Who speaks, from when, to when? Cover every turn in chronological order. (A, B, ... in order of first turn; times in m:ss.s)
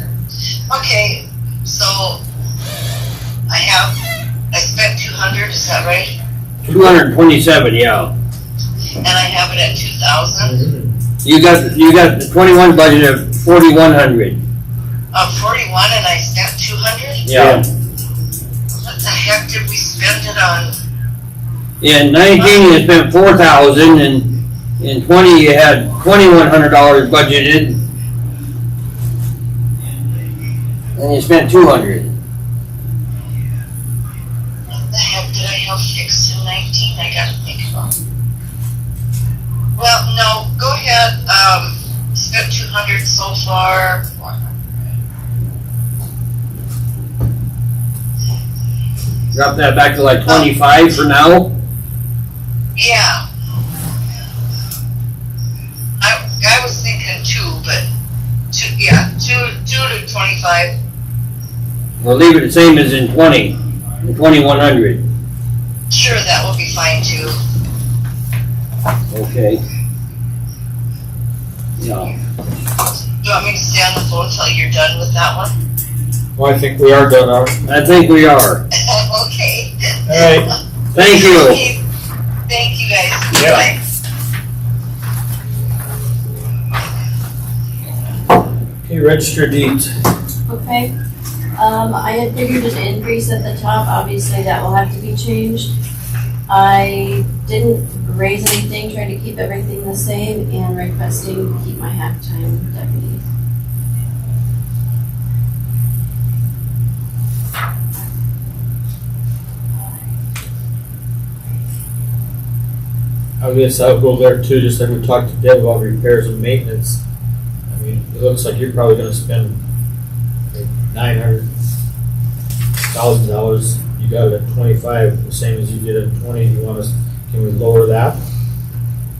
0:00.7-0:02.2 A
0:03.5-0:03.9 A
0:04.5-0:06.2 A
0:06.6-0:06.9 B
0:06.7-0:08.1 C
0:09.0-0:10.5 A
0:10.4-0:11.0 B
0:11.2-0:14.4 C
0:15.1-0:17.2 A
0:17.2-0:17.6 C
0:17.3-0:17.6 B
0:18.8-0:20.7 A
0:21.8-0:27.8 C
0:31.0-0:32.1 C
0:34.7-0:37.9 A
0:39.8-0:44.4 A
0:49.3-0:51.6 C
0:52.8-0:53.2 A
0:56.0-0:57.8 A
0:58.5-1:00.7 A
1:02.0-1:05.0 C
1:05.9-1:07.4 A
1:09.1-1:09.6 C
1:11.8-1:12.1 C
1:13.2-1:15.5 A
1:16.4-1:17.6 B
1:17.6-1:18.6 C
1:18.7-1:20.3 A
1:20.1-1:20.5 B
1:20.9-1:21.6 C
1:20.9-1:21.8 A
1:22.5-1:23.8 A
1:23.3-1:23.7 B
1:28.8-1:29.9 B
1:30.5-1:30.9 D
1:31.6-1:35.7 D
1:36.5-1:43.2 D
1:53.4-1:57.0 B
1:57.7-1:59.6 B
2:00.5-2:01.5 B
2:02.9-2:08.2 B